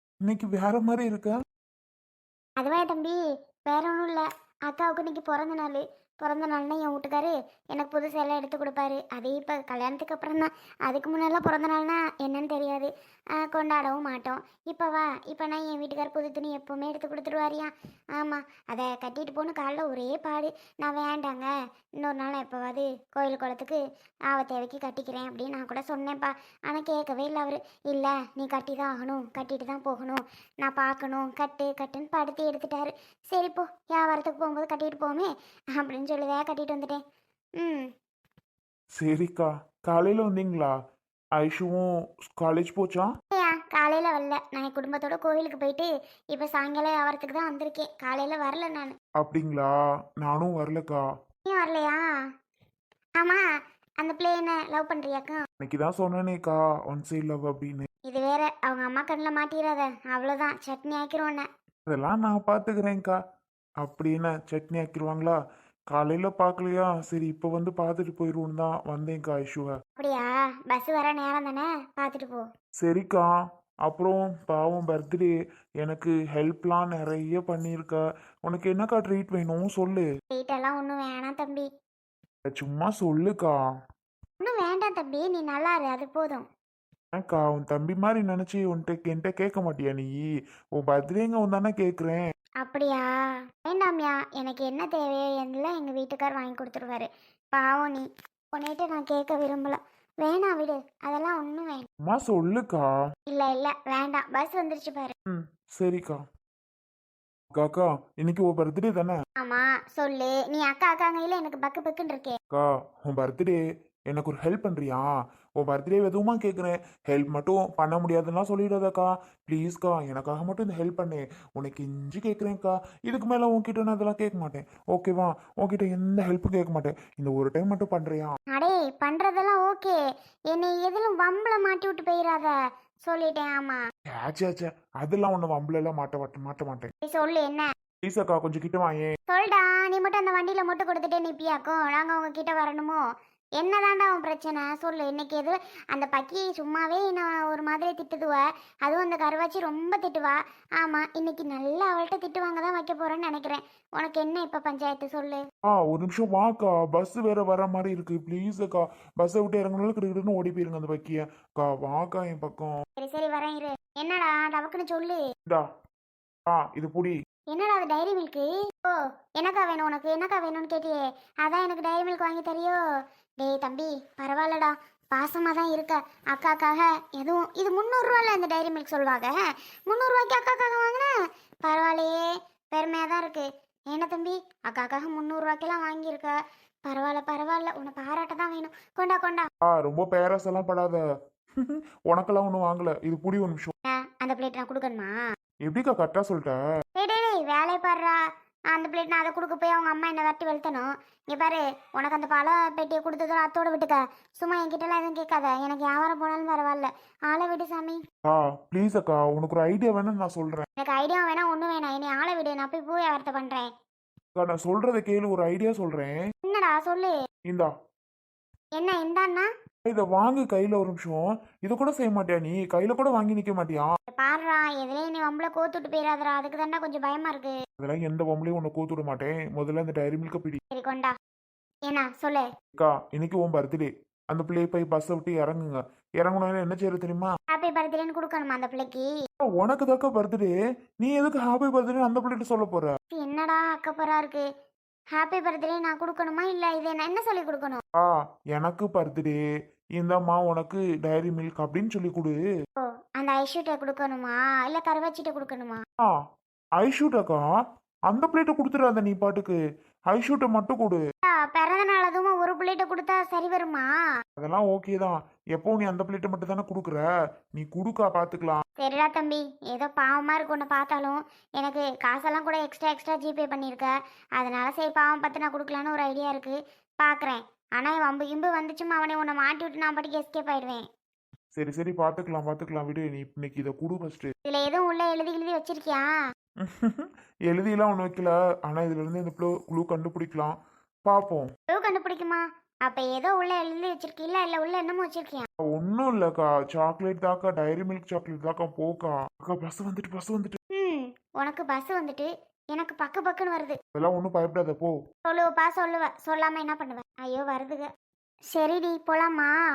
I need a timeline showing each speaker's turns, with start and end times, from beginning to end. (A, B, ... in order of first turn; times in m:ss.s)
0:00.2-0:01.4 A
0:02.6-0:37.0 B
0:37.6-0:37.9 B
0:39.0-0:40.7 A
0:41.4-0:43.1 A
0:43.3-0:48.9 B
0:49.2-0:51.0 A
0:51.4-0:52.0 B
0:54.0-0:55.4 B
0:55.6-0:57.9 A
0:58.0-1:01.5 B
1:01.9-1:03.2 A
1:03.8-1:05.4 A
1:05.9-1:09.7 A
1:10.0-1:12.4 B
1:12.8-1:13.3 A
1:13.9-1:20.0 A
1:20.3-1:21.7 B
1:22.5-1:23.6 A
1:24.4-1:26.5 B
1:27.2-1:30.2 A
1:30.8-1:32.3 A
1:32.6-1:41.9 B
1:42.0-1:42.9 A
1:43.3-1:45.1 B
1:45.3-1:46.2 A
1:47.5-1:49.2 A
1:49.4-1:52.4 B
1:52.5-1:53.6 A
1:54.1-1:55.1 A
1:55.6-2:08.3 A
2:08.5-2:10.0 B
2:10.5-2:12.5 B
2:13.1-2:13.8 B
2:14.2-2:16.9 A
2:17.0-2:17.7 B
2:18.0-2:19.1 A
2:19.3-2:23.0 B
2:23.6-2:35.4 B
2:35.8-2:42.7 A
2:43.0-2:45.2 B
2:46.5-2:47.1 A
2:47.5-2:52.8 B
2:53.4-3:01.1 B
3:01.6-3:09.5 B
3:09.7-3:11.0 A
3:11.6-3:13.7 A
3:13.9-3:15.1 B
3:15.6-3:16.6 A
3:17.0-3:28.0 B
3:28.2-3:30.7 A
3:30.8-3:33.7 B
3:34.4-3:36.2 A
3:36.4-3:37.1 B
3:38.8-3:39.5 B
3:39.8-3:43.9 A
3:44.1-3:47.6 B
3:47.8-3:50.6 A
3:50.7-3:51.1 B
3:51.9-3:52.4 B
3:52.7-3:57.3 A
3:57.5-3:59.1 B
3:59.6-4:02.9 A
4:03.1-4:04.5 B
4:05.1-4:07.8 B
4:08.0-4:09.4 A
4:10.0-4:12.4 A
4:12.8-4:15.8 B
4:16.8-4:17.4 A
4:18.1-4:19.6 A
4:20.1-4:21.0 A
4:21.4-4:23.9 B
4:24.4-4:27.0 A
4:27.6-4:28.6 A
4:28.8-4:40.8 B
4:41.6-4:44.3 A
4:44.4-4:46.1 B
4:46.6-4:50.5 A
4:51.0-4:51.5 A
4:51.7-4:55.5 B
4:55.7-5:00.6 A
5:00.7-5:03.8 B
5:03.9-5:05.0 A
5:05.2-5:07.9 B
5:08.5-5:09.6 B